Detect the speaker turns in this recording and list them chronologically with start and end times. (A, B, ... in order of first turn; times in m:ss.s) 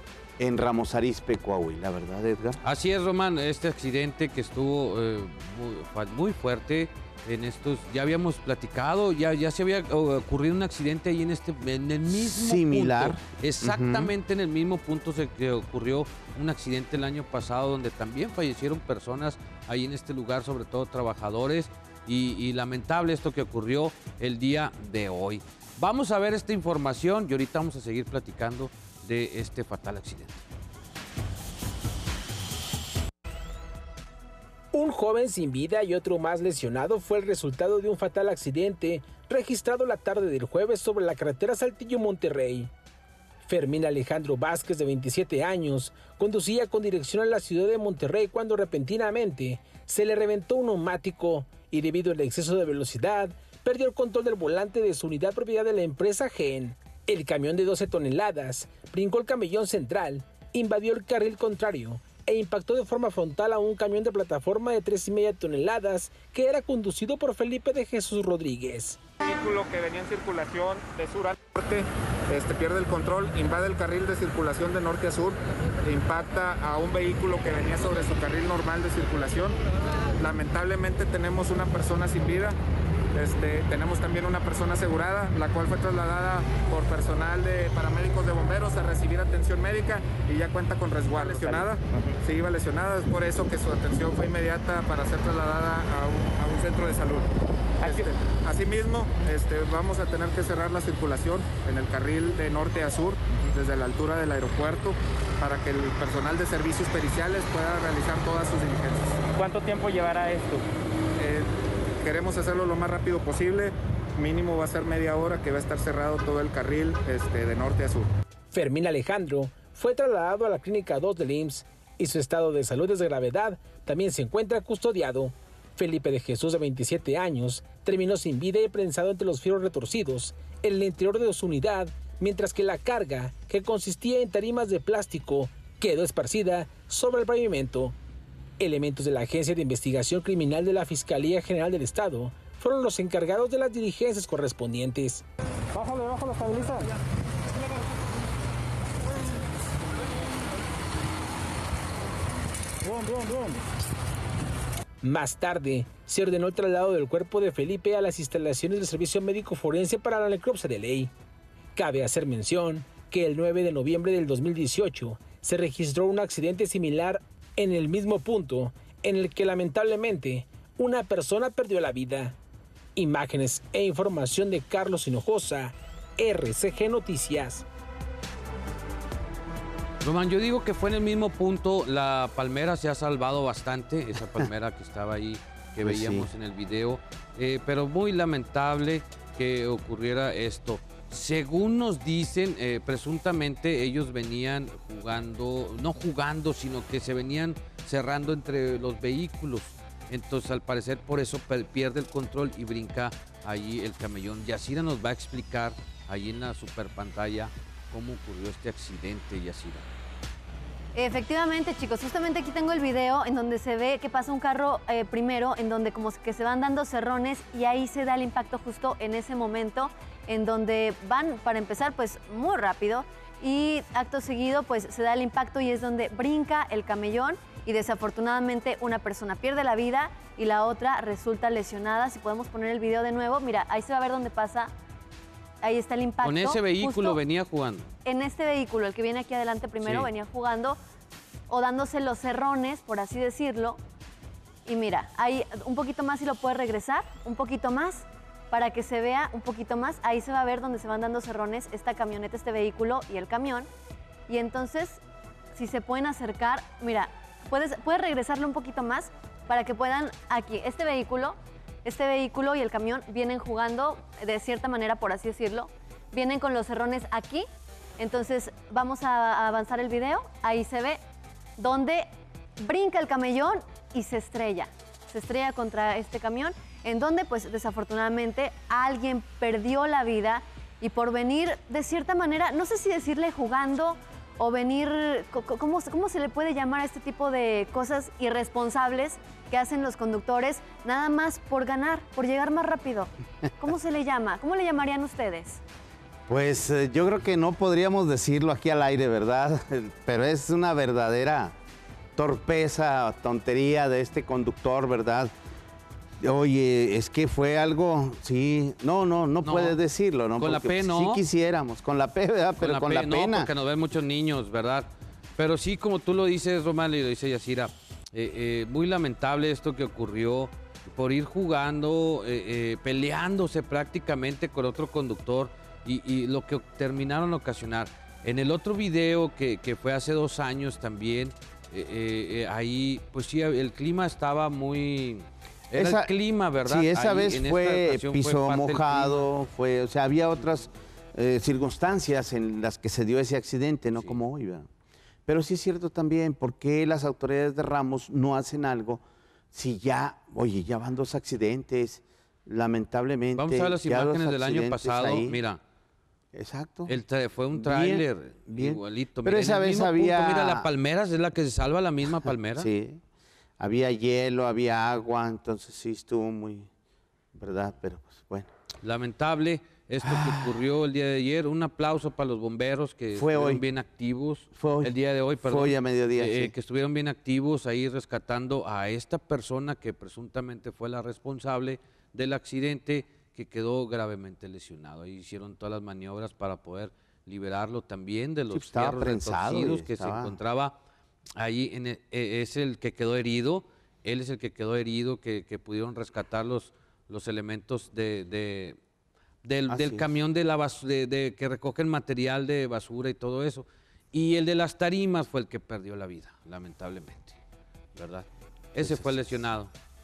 0:00.4-0:02.6 A
0:02.6-0:30.4 B
0:12.1-0:14.1 A
0:34.7-0:42.7 C
0:43.4-1:09.0 C
1:09.2-1:19.6 D
1:20.2-1:22.5 D
1:23.2-1:37.3 D
1:31.2-1:32.1 E
1:37.8-1:38.1 E
1:37.8-1:49.2 D
1:49.3-1:50.7 E
1:51.2-1:51.5 D
1:52.0-1:58.1 D
1:58.5-2:18.0 C
2:18.6-2:26.8 C
2:35.0-2:41.1 C
2:41.8-2:52.4 C
2:53.0-2:57.7 C
3:00.0-3:29.9 B
3:05.8-3:06.3 A
3:31.0-3:54.7 F
3:55.6-3:57.2 F
3:56.2-3:57.9 B
3:58.0-4:00.8 F
3:59.8-4:00.1 B
4:01.5-4:03.8 F
4:04.7-4:13.7 F
4:14.3-4:15.0 F
4:15.6-4:27.5 F
4:28.0-4:31.0 F
4:31.6-4:32.1 F
4:32.6-4:55.6 F
4:56.3-5:01.6 A
5:02.2-5:05.3 A
5:06.2-5:13.5 A
5:09.4-5:09.8 B
5:10.4-5:11.2 B
5:12.6-5:39.3 B
5:35.7-5:44.7 A
5:44.0-5:44.2 B
5:45.3-5:55.4 A
5:53.3-5:55.6 B
5:56.3-5:57.0 A
5:56.9-6:02.7 B
5:57.5-6:00.7 A
6:02.6-6:03.0 A
6:03.6-6:06.7 A
6:07.3-6:08.5 A
6:08.8-6:30.8 B
6:10.0-6:10.6 A
6:13.1-6:13.7 A
6:14.5-6:16.5 A
6:28.5-6:30.4 A
6:31.4-6:38.8 B
6:39.4-6:47.4 B
6:39.7-6:40.1 A
6:48.0-6:49.7 B
6:48.8-6:49.4 A